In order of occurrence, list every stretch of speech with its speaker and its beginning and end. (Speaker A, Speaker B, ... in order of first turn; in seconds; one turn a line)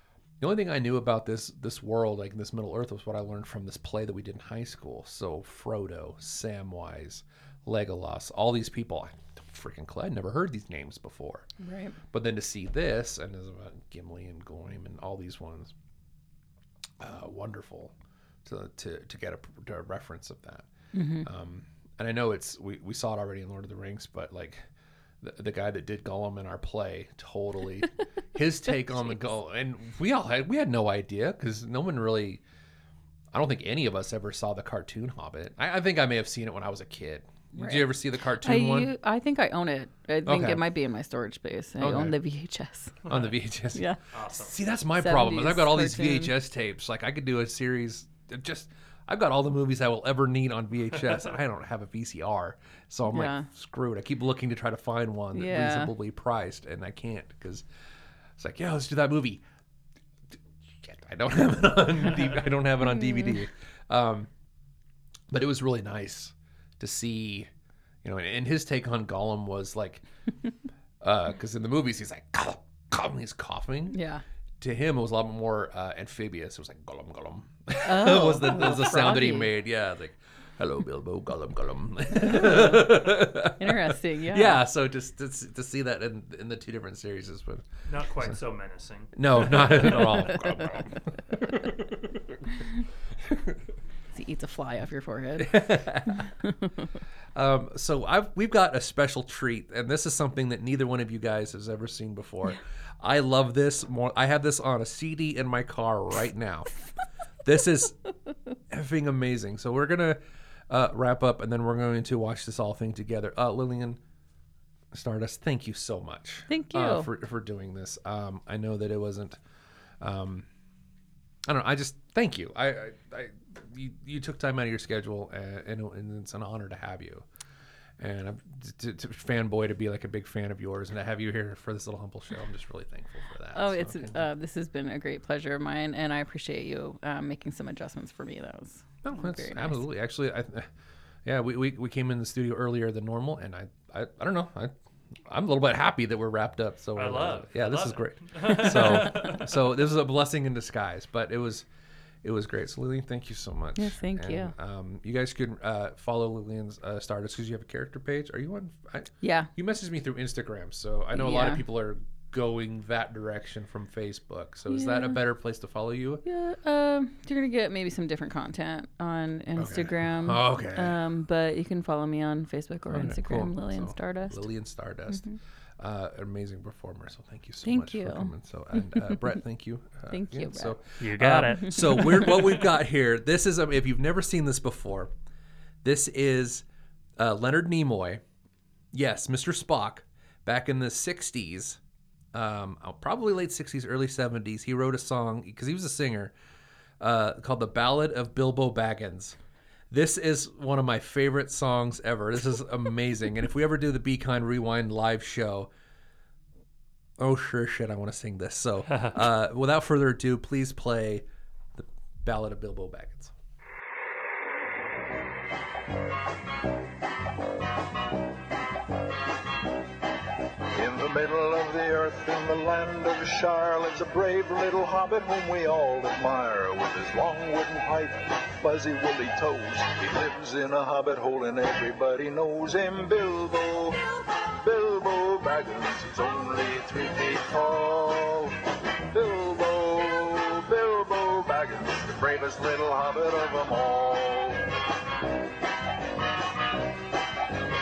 Speaker A: 0.4-11.5
Speaker B: 11.6-12.0
Speaker A: 12.1-15.7
Speaker A: 17.0-17.9
Speaker A: 18.4-20.7
Speaker B: 20.9-21.3
Speaker A: 21.2-24.6
Speaker A: 25.2-32.4
Speaker A: 33.3-38.9
Speaker B: 37.5-37.9
Speaker B: 38.4-43.0
Speaker A: 40.3-40.6
Speaker A: 41.8-42.2
Speaker A: 43.1-57.7
Speaker B: 43.7-44.0
Speaker C: 44.1-44.5
Speaker B: 45.0-46.3
Speaker B: 53.1-53.5
Speaker B: 55.3-55.9
Speaker A: 58.4-59.4
Speaker A: 60.7-64.3
Speaker B: 62.9-63.4
Speaker A: 65.3-67.5
Speaker A: 68.0-70.0
Speaker A: 71.0-74.0
Speaker B: 73.9-74.2
Speaker A: 74.6-87.7
Speaker B: 77.8-79.5
Speaker B: 82.2-83.0
Speaker B: 83.6-84.6
Speaker C: 87.9-90.1
Speaker A: 89.2-92.5
Speaker B: 90.0-90.7
Speaker A: 93.3-93.6
Speaker B: 94.1-96.9
Speaker A: 95.4-96.3
Speaker A: 97.3-106.8
Speaker A: 107.4-108.0
Speaker A: 108.7-110.2
Speaker A: 110.7-114.0
Speaker A: 114.9-119.4
Speaker B: 116.5-117.1
Speaker A: 120.0-120.5
Speaker A: 121.5-127.3
Speaker A: 128.0-134.2
Speaker B: 133.6-139.8
Speaker A: 139.0-140.7
Speaker A: 141.2-144.7
Speaker A: 145.3-151.7
Speaker C: 147.0-149.6
Speaker B: 148.6-149.3
Speaker A: 152.2-166.2
Speaker B: 153.8-154.5
Speaker B: 159.2-159.5
Speaker B: 161.1-161.6
Speaker B: 164.7-165.2
Speaker B: 166.2-174.4
Speaker A: 169.6-171.0
Speaker A: 172.9-175.3
Speaker B: 175.1-175.4
Speaker A: 175.8-185.1
Speaker B: 177.6-178.3
Speaker B: 178.9-179.2
Speaker B: 180.1-180.8
Speaker C: 181.0-182.4
Speaker B: 181.8-182.3
Speaker A: 185.8-186.6
Speaker A: 187.2-188.2
Speaker A: 188.9-191.8
Speaker A: 192.3-196.3
Speaker A: 197.0-199.4
Speaker A: 199.9-205.7
Speaker A: 207.2-213.3
Speaker D: 220.7-244.7